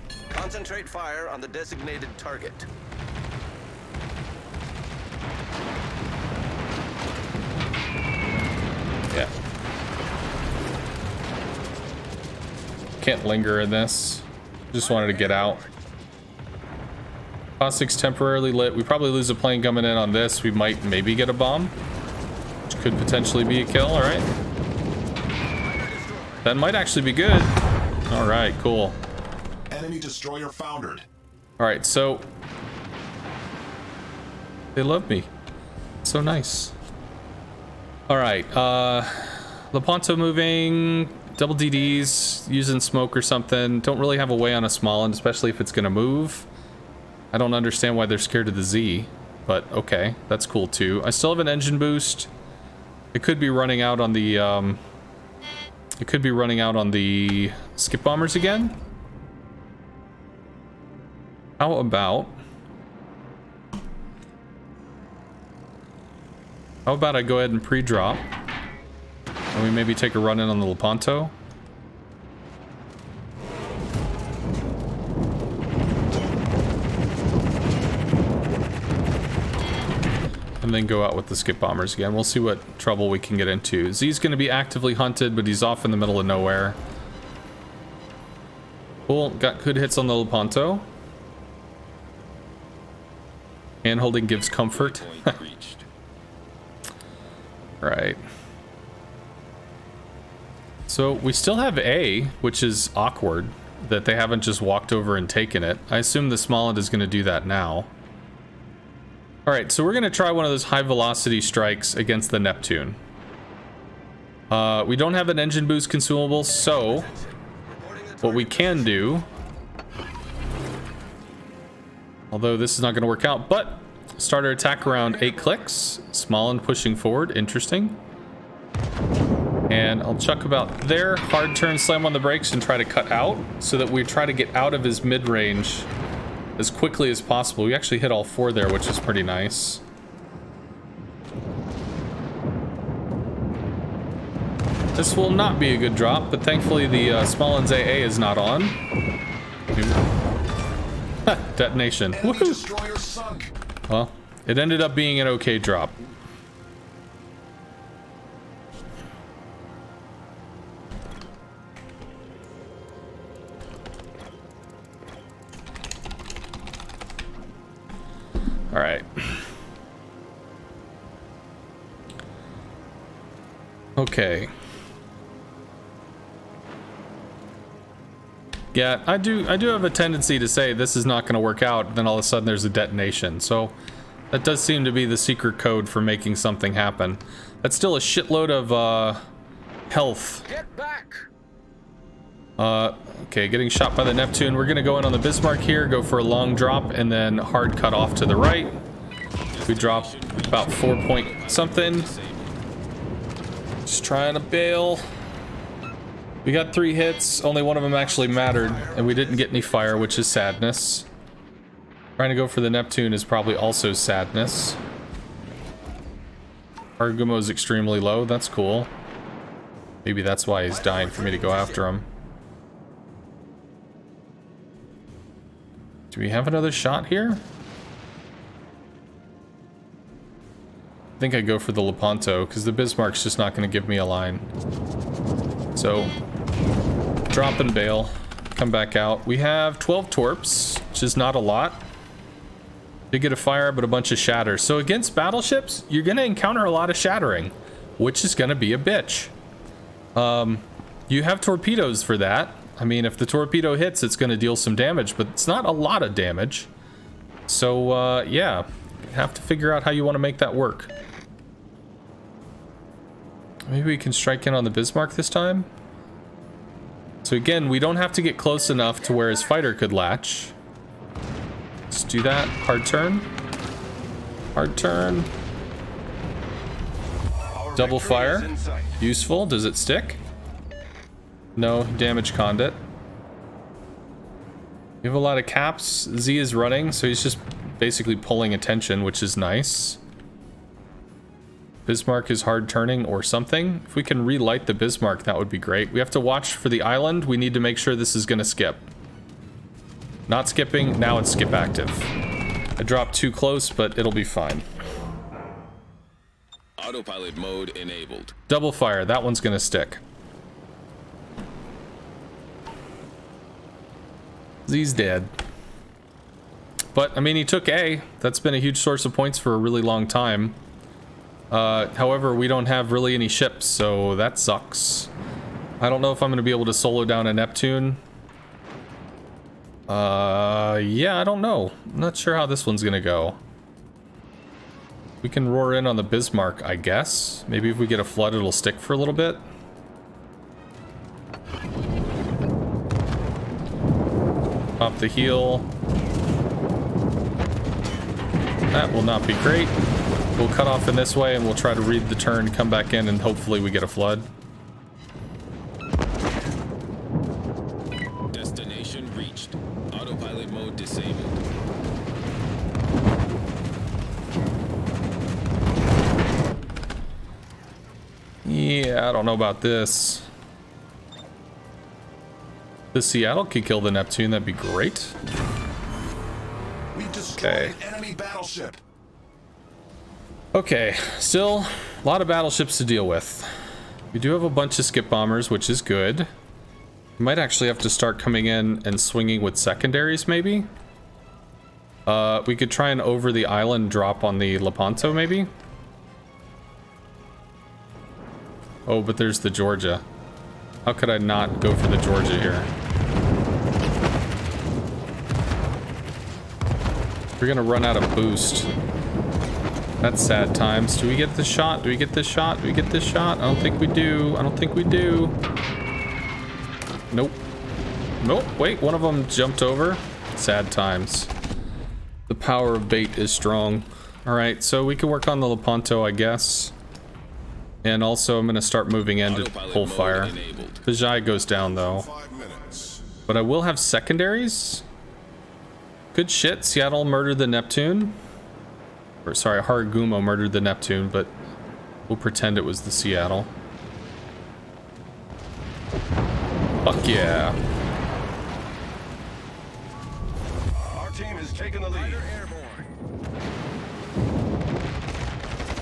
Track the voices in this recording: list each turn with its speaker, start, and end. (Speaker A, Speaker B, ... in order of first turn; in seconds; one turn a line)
Speaker A: 0.3-2.7
Speaker B: 13.0-15.6
Speaker A: 14.8-15.7
Speaker B: 17.6-21.7
Speaker B: 22.7-24.3
Speaker A: 25.6-26.5
Speaker B: 26.4-27.6
Speaker B: 28.1-29.0
Speaker C: 29.7-31.1
Speaker B: 31.6-32.3
Speaker B: 34.8-35.3
Speaker B: 36.0-36.8
Speaker B: 38.1-46.5
Speaker B: 47.3-52.3
Speaker B: 53.1-54.8
Speaker B: 56.0-58.8
Speaker B: 61.6-62.4
Speaker B: 66.9-68.2
Speaker B: 69.5-71.3
Speaker B: 80.6-86.8
Speaker B: 89.1-90.9
Speaker B: 93.8-95.4
Speaker D: 94.7-95.8
Speaker B: 97.8-98.2
Speaker B: 100.9-107.9
Speaker B: 109.5-113.0
Speaker B: 114.5-117.1
Speaker A: 116.8-119.1
Speaker B: 118.2-119.3
Speaker B: 122.3-128.0
Speaker A: 124.9-125.6
Speaker B: 129.7-135.9
Speaker B: 136.6-139.8
Speaker B: 145.0-148.8
Speaker B: 149.7-150.0
Speaker B: 151.2-152.7
Speaker C: 152.1-153.5
Speaker B: 153.9-156.0
Speaker B: 168.7-169.5
Speaker B: 174.0-174.5
Speaker B: 178.7-183.8
Speaker B: 184.3-189.2
Speaker B: 189.9-190.5
Speaker A: 190.5-191.3
Speaker B: 192.6-198.8
Speaker D: 199.5-202.6
Speaker B: 199.7-202.1
Speaker B: 203.9-205.1
Speaker B: 206.4-211.1
Speaker A: 208.1-209.3
Speaker C: 208.4-210.3
Speaker B: 212.2-214.8
Speaker B: 217.0-218.9
Speaker B: 220.0-222.1
Speaker A: 220.7-221.8
Speaker B: 226.1-227.4
Speaker B: 231.2-234.4
Speaker B: 235.8-236.1
Speaker B: 237.3-241.8
Speaker B: 243.1-249.3
Speaker B: 250.2-256.7
Speaker B: 257.5-260.9
Speaker B: 263.7-265.7
Speaker B: 267.2-270.5
Speaker B: 271.9-273.3
Speaker B: 274.6-275.3
Speaker C: 277.5-278.9
Speaker B: 277.8-280.2
Speaker A: 277.8-278.7
Speaker B: 281.6-282.8
Speaker B: 285.0-290.0
Speaker B: 291.9-298.9
Speaker B: 300.3-302.1
Speaker B: 302.8-304.6
Speaker D: 306.8-308.4
Speaker B: 308.5-310.0
Speaker B: 314.7-315.3
Speaker B: 316.9-320.6
Speaker B: 321.5-325.1
Speaker B: 325.8-328.0
Speaker B: 329.9-333.4
Speaker B: 335.2-339.4
Speaker B: 344.8-345.7
Speaker B: 348.7-349.8
Speaker B: 350.4-354.3
Speaker D: 358.3-361.4
Speaker B: 368.4-370.3
Speaker B: 372.9-375.2
Speaker C: 376.9-378.8
Speaker B: 377.4-377.8
Speaker B: 380.5-383.5
Speaker B: 384.1-386.3
Speaker B: 387.2-390.7
Speaker B: 392.1-395.5
Speaker B: 398.9-400.0
Speaker B: 400.9-402.7
Speaker B: 407.4-408.7
Speaker B: 410.0-415.4
Speaker B: 417.1-417.4
Speaker B: 418.2-421.3
Speaker B: 422.3-426.7
Speaker B: 427.8-432.1
Speaker D: 429.2-430.8
Speaker C: 431.3-433.1
Speaker B: 433.3-434.9
Speaker B: 436.1-438.2
Speaker B: 439.2-441.3
Speaker B: 442.1-443.5
Speaker B: 446.9-447.6
Speaker A: 450.8-452.9